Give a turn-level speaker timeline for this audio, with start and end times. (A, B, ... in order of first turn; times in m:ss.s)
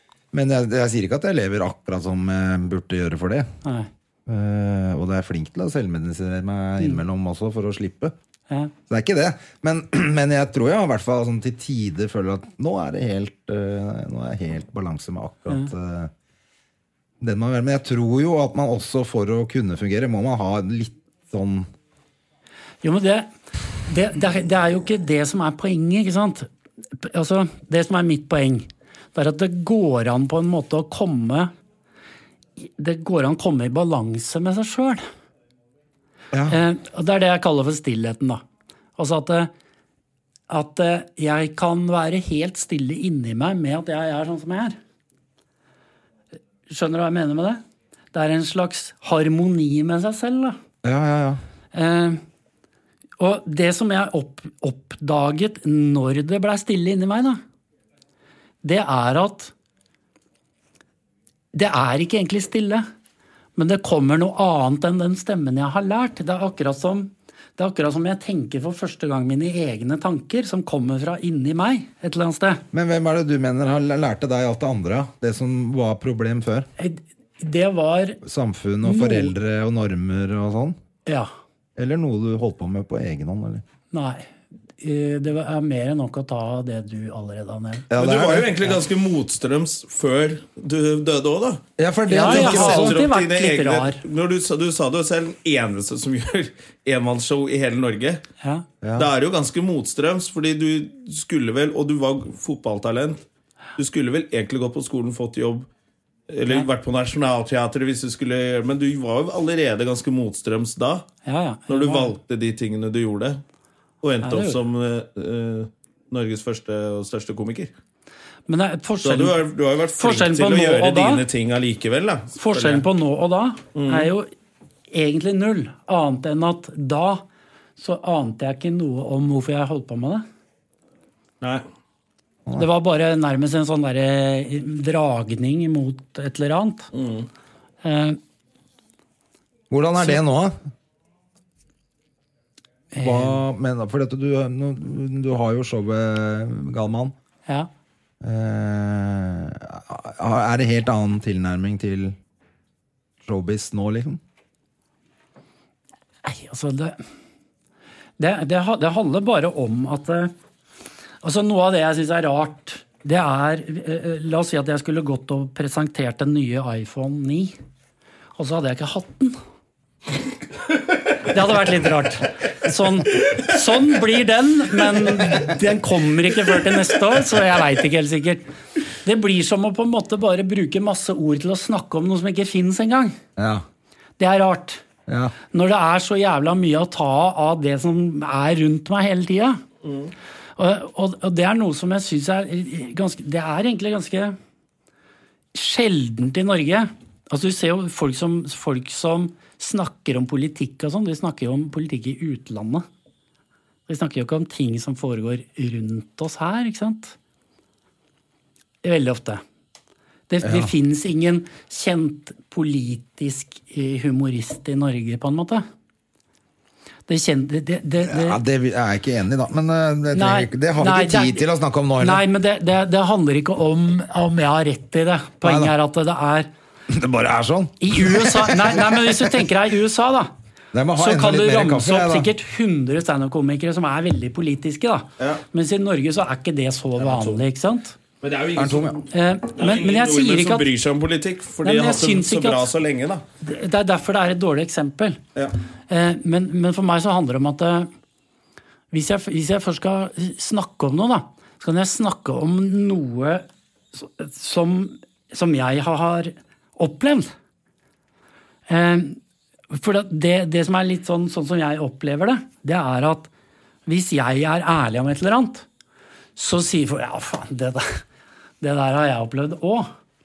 0:00.3-0:03.5 A
0:03.6-0:03.9 B
0:04.3-0:08.1 A
0:08.9-0:16.1 A
0:17.2-0:21.7 A
0:22.8-0:23.3 B
0:23.8-0:26.5 B
0:27.0-0:31.5 B
0:32.6-0:35.0 B
0:36.3-0:36.6 A
0:36.5-0:38.4 B
0:39.0-0:39.5 B
0:40.5-0:44.8 B
0:46.7-0:47.6 B
0:48.1-0:50.6 B
0:50.8-0:51.4 A
0:51.7-0:52.2 B
0:53.2-0:57.4 B
0:58.6-0:59.5 B
1:01.5-1:02.8 B
1:03.6-1:12.6 B
1:12.7-1:16.7 A
1:16.8-1:18.2 B
1:18.2-1:20.8 A
1:18.8-1:19.3 B
1:21.8-1:23.6 A
1:23.9-1:27.9 B
1:27.9-1:28.7 A
1:27.9-1:31.6 C
1:31.8-1:33.0 A
1:32.1-1:34.0 B
1:32.2-1:38.2 C
1:38.8-1:39.1 A
1:39.0-1:43.2 C
1:43.8-1:45.7 C
1:46.3-1:51.1 C
1:51.3-1:52.1 B
1:51.7-1:53.4 C
1:54.0-1:57.7 C
1:54.2-1:54.6 B
1:58.5-1:59.4 B
1:59.0-2:02.8 C
2:00.0-2:01.2 B
2:02.4-2:04.3 B
2:03.8-2:04.1 C
2:04.9-2:07.2 B
2:07.8-2:10.2 B
2:12.6-2:16.9 B
2:16.9-2:17.3 C
2:17.8-2:18.2 B
2:19.7-2:20.6 A
2:22.9-2:23.4 B
2:23.0-2:27.2 A
2:28.2-2:32.2 A
2:33.2-2:34.2 A
2:36.2-2:37.0 B
2:38.2-2:40.3 B
2:41.2-2:47.5 B
2:48.4-2:49.4 B
2:51.2-2:58.4 B
2:59.0-3:03.2 B
3:03.4-3:03.6 A
3:04.2-3:04.8 B
3:05.1-3:05.3 A
3:05.5-3:09.6 B
3:09.8-3:10.1 C
3:10.6-3:14.4 B
3:15.5-3:22.8 B
3:23.9-3:27.2 B
3:28.8-3:29.4 B
3:30.3-3:35.6 B
3:30.4-3:30.7 A
3:37.1-3:38.4 B
3:38.0-3:42.2 A
3:40.1-3:41.5 B
3:42.0-3:46.5 B
3:45.4-3:45.7 A
3:46.9-3:49.4 A
3:47.8-3:50.3 B
3:50.7-3:52.3 A
3:51.0-3:58.0 B
3:57.0-3:57.4 C
3:58.2-4:03.2 C
3:58.6-3:59.0 A
3:59.1-4:00.7 B
4:01.6-4:02.7 B
4:03.4-4:05.2 B
4:05.9-4:07.9 B
4:08.9-4:17.3 B
4:18.7-4:19.2 B
4:19.7-4:23.3 B
4:23.9-4:25.7 B
4:26.4-4:28.0 B
4:28.6-4:29.9 B